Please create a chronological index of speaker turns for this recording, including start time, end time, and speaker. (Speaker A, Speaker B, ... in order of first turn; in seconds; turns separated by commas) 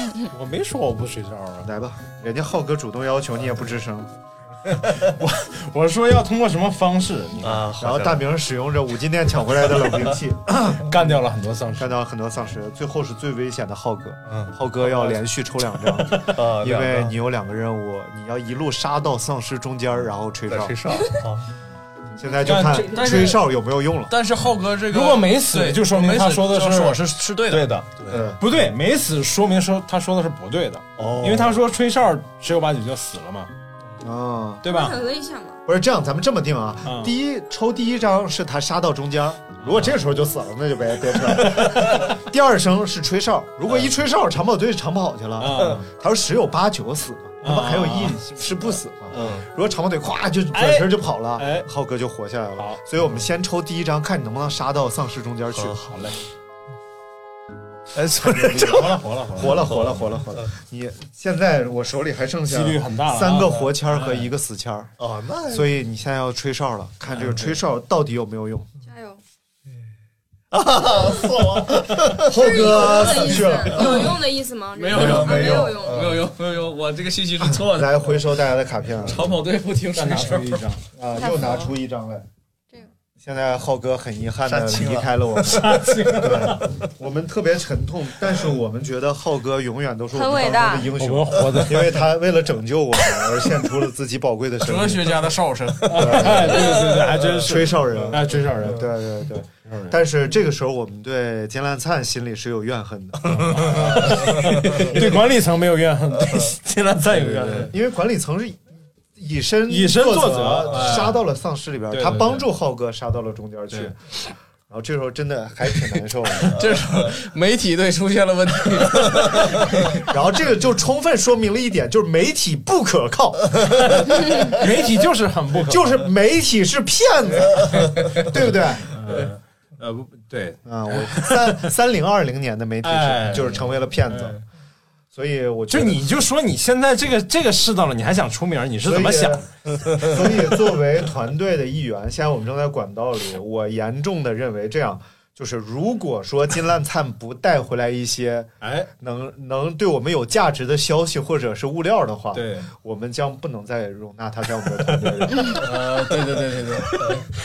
Speaker A: 0.3-1.7, Speaker B: 1.6-4.1, Speaker A: 4.8-7.7, Speaker C: 7.4-8.2, Speaker B: 7.8-10.9, Speaker A: 10.7-11.9, Speaker B: 11.8-20.8, Speaker C: 14.3-14.5, Speaker C: 16.2-17.1, Speaker C: 20.5-21.4, Speaker B: 22.2-24.1, Speaker A: 22.4-23.3, Speaker D: 22.9-23.4, Speaker D: 24.1-27.7, Speaker A: 24.9-27.0, Speaker C: 27.8-28.2, Speaker B: 28.1-28.4, Speaker A: 28.4-33.5, Speaker B: 31.0-31.6, Speaker B: 34.0-34.6, Speaker A: 34.6-35.0, Speaker E: 34.7-35.6, Speaker B: 35.7-56.0, Speaker A: 36.9-37.1, Speaker A: 39.6-40.0, Speaker A: 41.4-42.1, Speaker A: 45.4-45.9, Speaker A: 47.4-48.2, Speaker C: 49.1-49.4, Speaker A: 50.5-51.7, Speaker C: 55.5-55.8, Speaker C: 57.9-60.5, Speaker B: 58.2-64.9, Speaker A: 58.6-59.7, Speaker A: 62.5-64.3, Speaker C: 65.0-65.7, Speaker B: 65.5-68.7, Speaker E: 68.8-69.2, Speaker C: 70.5-72.3, Speaker B: 72.2-74.1, Speaker E: 72.2-76.0, Speaker C: 73.8-74.1, Speaker D: 74.8-78.2, Speaker C: 74.9-76.3, Speaker B: 74.9-75.7, Speaker B: 77.4-79.3, Speaker D: 79.0-80.7, Speaker A: 79.9-80.8, Speaker B: 81.0-82.3, Speaker E: 81.2-81.7, Speaker B: 83.2-95.3, Speaker C: 84.5-85.8, Speaker A: 85.5-86.7, Speaker E: 90.1-90.9, Speaker A: 91.0-92.1, Speaker D: 94.6-96.5, Speaker A: 95.9-98.9, Speaker B: 95.9-105.1, Speaker A: 99.7-100.0, Speaker A: 103.3-107.8, Speaker C: 104.0-104.9, Speaker C: 107.2-107.6, Speaker B: 107.6-108.6, Speaker B: 109.2-114.0, Speaker A: 109.7-111.2, Speaker A: 111.9-112.5, Speaker B: 114.7-116.7, Speaker D: 116.5-120.0, Speaker B: 120.0-124.3, Speaker A: 123.7-126.0, Speaker B: 125.6-129.0, Speaker A: 128.0-128.3, Speaker A: 128.9-131.7, Speaker B: 130.7-134.4, Speaker A: 132.8-134.4, Speaker B: 135.1-136.0, Speaker A: 135.7-139.5, Speaker B: 138.8-155.7, Speaker A: 148.6-148.9, Speaker A: 152.3-152.7, Speaker D: 155.6-157.3